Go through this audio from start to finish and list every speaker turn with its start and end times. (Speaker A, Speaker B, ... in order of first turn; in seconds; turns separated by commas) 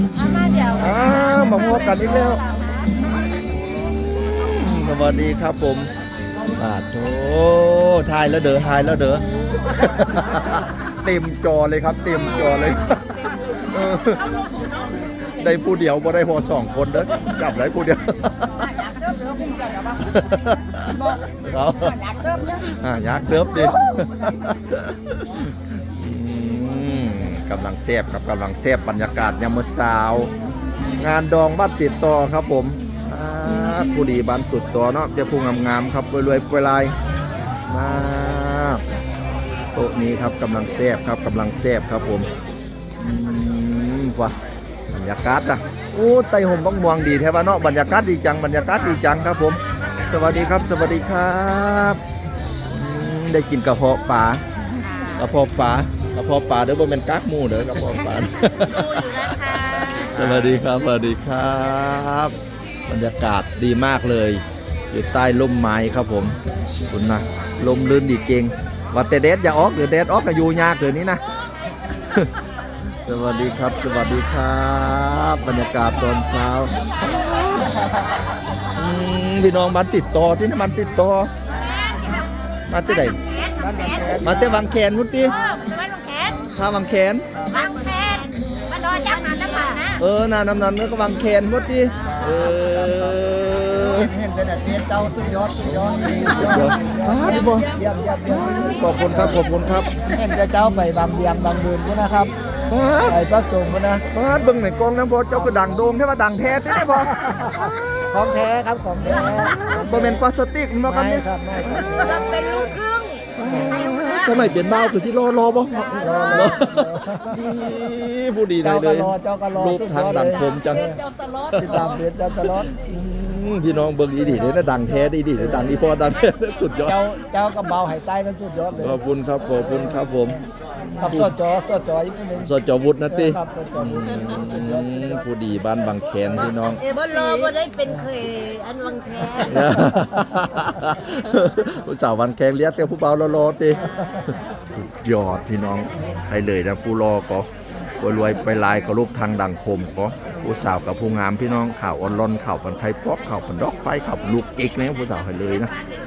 Speaker A: 0.2-2.4, Speaker B: 0.8-1.6, Speaker A: 4.1-5.9, Speaker A: 6.6-14.4, Speaker A: 15.2-18.5, Speaker B: 18.8-19.6, Speaker A: 20.0-30.3, Speaker A: 31.0-37.0, Speaker A: 37.7-38.8, Speaker A: 39.7-42.3, Speaker A: 43.0-44.4, Speaker A: 44.9-52.0, Speaker A: 52.7-54.4, Speaker B: 54.8-55.2, Speaker A: 55.2-62.3, Speaker B: 58.6-60.5, Speaker A: 62.9-66.4, Speaker A: 66.9-71.2, Speaker A: 73.0-77.8, Speaker A: 78.8-81.3, Speaker B: 81.5-82.3, Speaker A: 82.7-83.2, Speaker B: 82.9-84.5, Speaker C: 83.6-84.7, Speaker A: 84.2-85.3, Speaker B: 85.2-86.4, Speaker A: 86.5-87.3, Speaker B: 87.5-90.0, Speaker A: 90.0-94.1, Speaker C: 94.2-99.5, Speaker A: 95.6-97.7, Speaker A: 98.3-99.9, Speaker C: 100.0-102.3, Speaker A: 102.7-103.2, Speaker C: 103.1-104.0, Speaker A: 104.1-108.1, Speaker C: 106.9-110.2, Speaker A: 109.0-112.7, Speaker C: 110.8-112.4, Speaker B: 112.0-114.8, Speaker A: 113.3-120.9, Speaker B: 115.7-116.1, Speaker C: 116.0-117.7, Speaker C: 118.6-121.0, Speaker B: 121.0-121.6, Speaker A: 121.5-127.0, Speaker C: 121.6-122.7, Speaker C: 125.4-125.7, Speaker C: 126.8-130.3, Speaker A: 128.8-131.3, Speaker C: 131.0-132.5, Speaker A: 132.4-136.8, Speaker C: 133.1-135.2, Speaker B: 136.8-139.7, Speaker A: 139.4-147.5, Speaker A: 148.0-155.7